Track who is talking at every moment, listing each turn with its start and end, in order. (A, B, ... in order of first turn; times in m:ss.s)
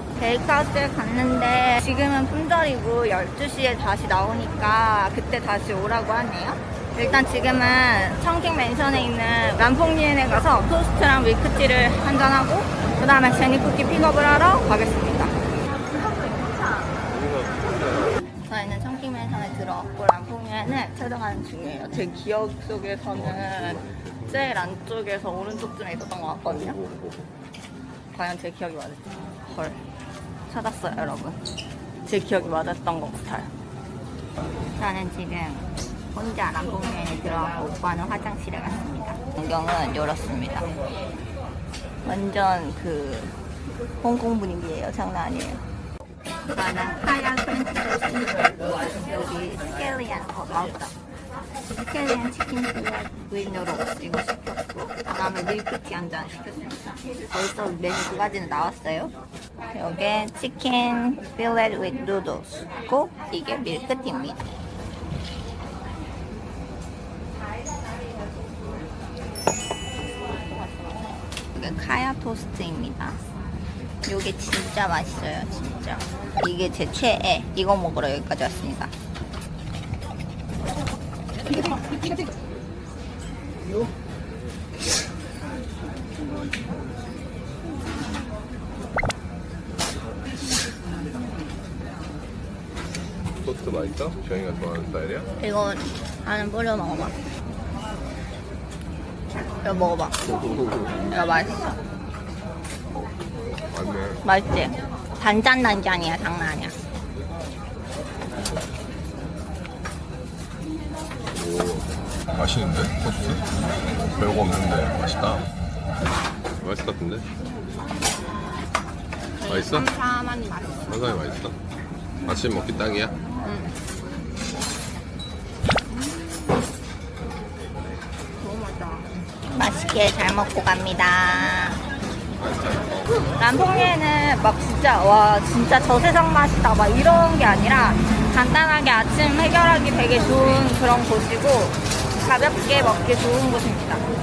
0:00.2-0:15.4 A
0:17.1-0:18.2 B
0:18.5-0:26.8 A
0:23.1-0:24.7 B
0:26.5-0:27.3 B
0:28.1-0:29.8 A
0:30.5-0:31.4 A
0:32.1-0:33.5 A
0:34.8-0:40.8 A
0:42.0-0:43.4 A
0:44.0-0:45.6 A
0:46.5-0:50.9 A
0:51.8-0:59.1 A
0:59.7-1:04.4 A
1:11.5-1:13.2 A
1:14.0-1:18.9 A
1:33.4-1:35.3 B
1:35.4-1:37.2 A
1:39.6-1:40.2 A
1:40.2-1:41.1 B
1:41.1-1:41.7 A
1:42.9-1:44.2 B
1:44.2-1:46.8 A
1:51.3-1:53.5 B
1:54.2-1:55.5 B
1:56.6-1:57.3 B
1:59.4-2:00.9 A
1:59.5-1:59.9 B
2:00.9-2:01.6 B
2:02.2-2:03.2 B
2:03.4-2:03.7 A
2:05.9-2:06.6 A
2:08.4-2:11.8 A
2:12.4-2:13.5 B
2:13.4-2:24.0 A